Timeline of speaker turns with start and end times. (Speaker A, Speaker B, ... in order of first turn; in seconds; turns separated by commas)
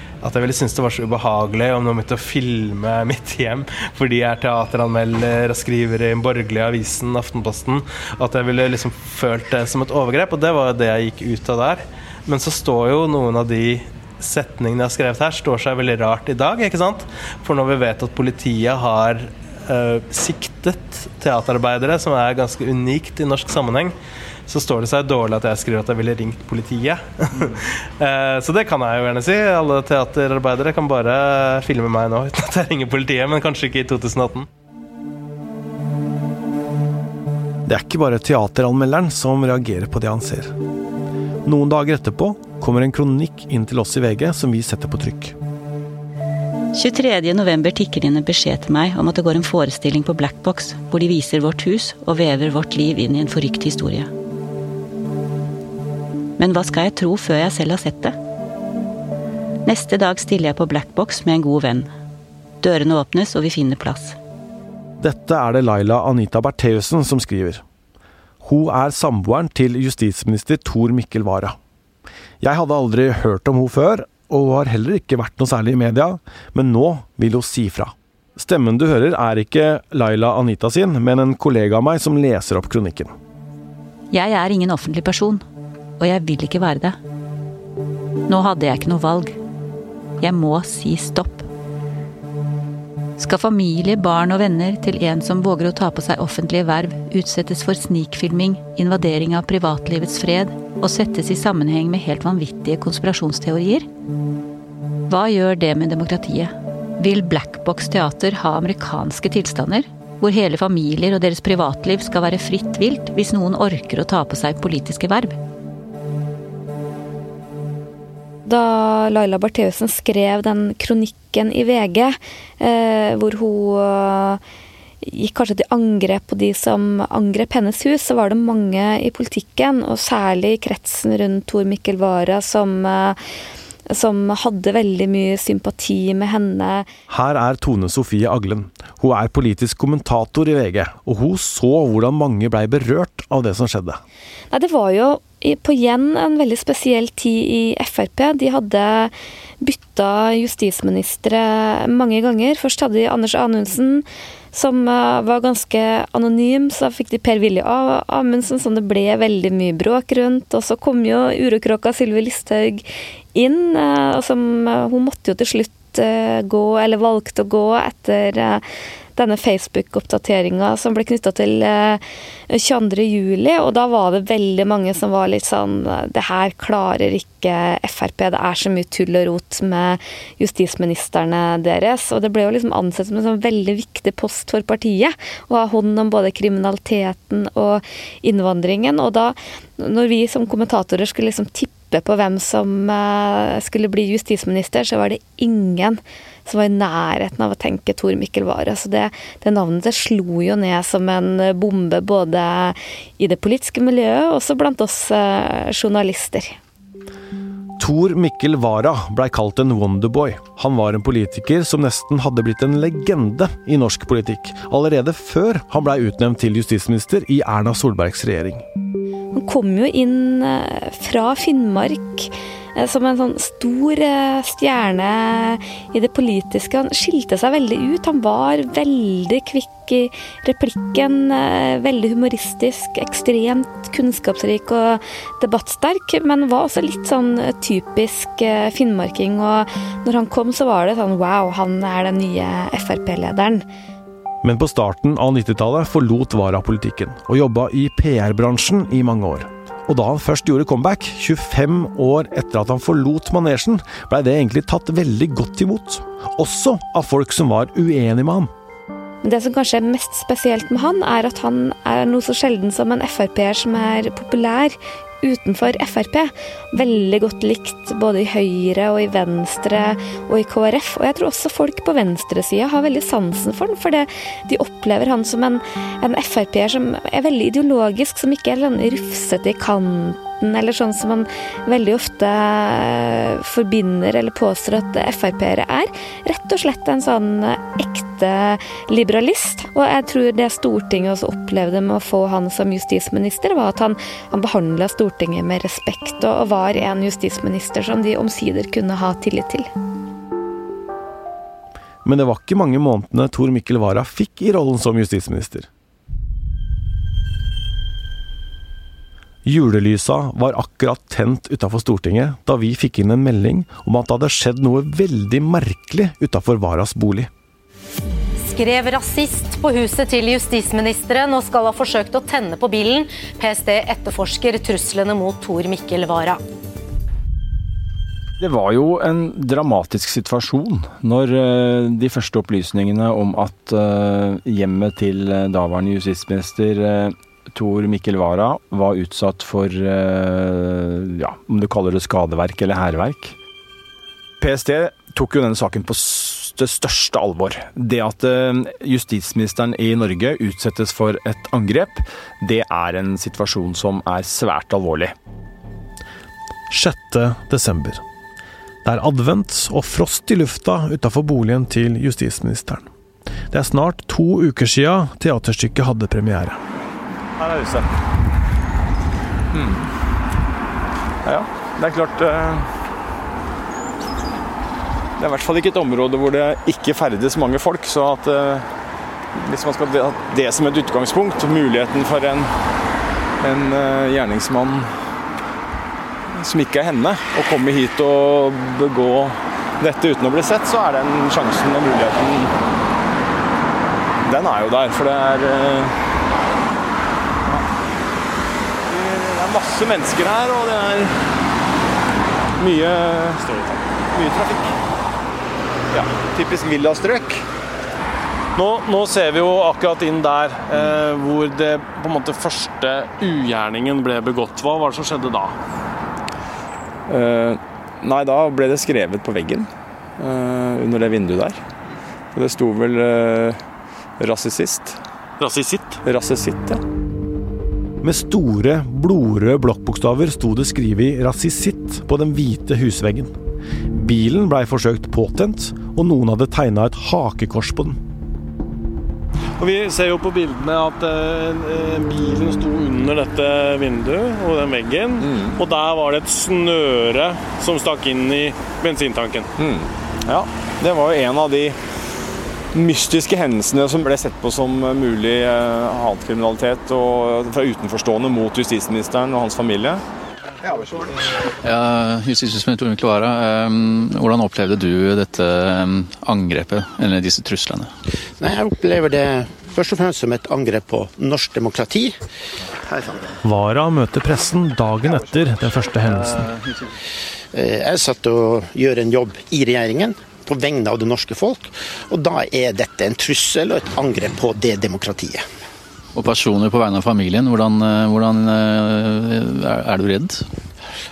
Speaker A: 0.2-23.9, Speaker A: 24.5-34.5, Speaker B: 37.6-40.5, Speaker B: 41.4-45.3, Speaker C: 46.7-54.1, Speaker C: 56.4-58.1, Speaker C: 59.6-61.9, Speaker C: 62.6-64.2, Speaker B: 65.0-67.6, Speaker B: 68.4-71.6, Speaker B: 72.4-83.1, Speaker C: 84.1-85.4, Speaker C: 86.0-87.0, Speaker C: 88.3-89.3, Speaker C: 90.2-91.5, Speaker C: 93.2-103.9, Speaker C: 105.1-115.4, Speaker D: 118.5-124.4, Speaker D: 125.0-133.2, Speaker D: 133.9-136.9, Speaker B: 137.1-144.0, Speaker D: 144.5-168.6, Speaker D: 169.2-206.6, Speaker B: 207.8-218.6, Speaker D: 219.3-243.6, Speaker B: 244.4-258.5, Speaker D: 259.2-299.7, Speaker B: 302.0-305.7, Speaker B: 309.4-317.3, Speaker E: 318.4-326.4, Speaker F: 328.4-343.4, Speaker F: 344.4-355.1, Speaker B: 356.7-358.0, Speaker B: 358.8-362.9, Speaker B: 363.5-366.6, Speaker F: 367.4-367.9, Speaker F: 369.5-369.9, Speaker F: 371.2-372.7, Speaker F: 375.2-378.7, Speaker F: 379.3-382.5, Speaker F: 383.4-384.9, Speaker F: 386.3-392.5, Speaker F: 394.2-396.0, Speaker F: 398.9-401.2, Speaker F: 402.6-404.8, Speaker F: 405.9-407.4, Speaker G: 408.6-415.6, Speaker F: 417.1-421.6, Speaker F: 422.3-423.6, Speaker F: 424.2-425.0, Speaker G: 425.4-426.0, Speaker F: 426.0-426.8, Speaker B: 428.0-433.3, Speaker B: 433.9-438.0, Speaker G: 439.6-449.5, Speaker F: 449.6-451.8, Speaker F: 452.7-460.0, Speaker H: 461.6-467.9, Speaker I: 468.4-472.2, Speaker B: 473.4-476.5, Speaker I: 477.5-485.4, Speaker H: 486.1-490.4